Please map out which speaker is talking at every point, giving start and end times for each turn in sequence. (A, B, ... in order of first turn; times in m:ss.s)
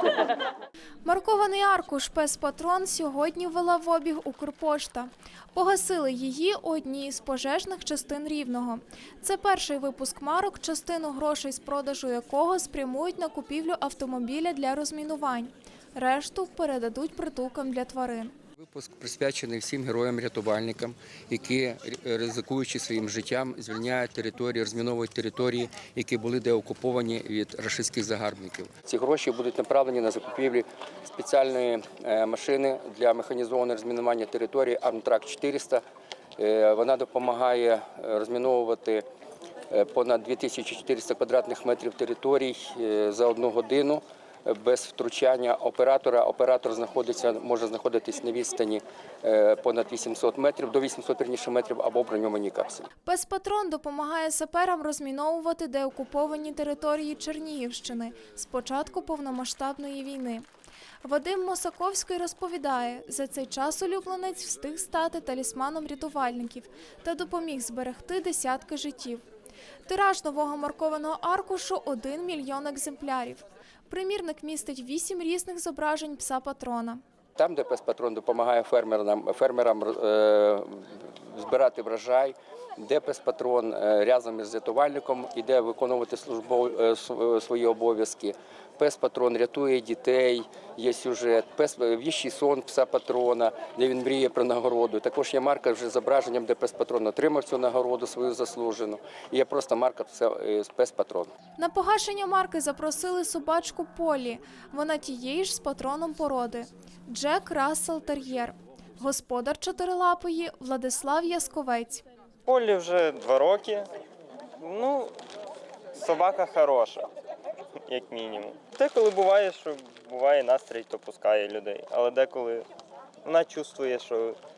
0:01.0-0:18.3 A
0:18.6-0:35.8 B
0:36.4-0:39.0 B
0:39.7-0:52.9 B
0:53.0-1:00.4 A
1:01.0-1:09.2 A
1:09.9-1:17.0 A
1:17.4-1:41.3 B
1:41.6-1:52.0 A
1:52.5-1:53.9 C
1:54.6-1:55.1 C
1:56.0-1:57.1 C
1:57.9-2:02.7 C
2:03.2-2:04.4 C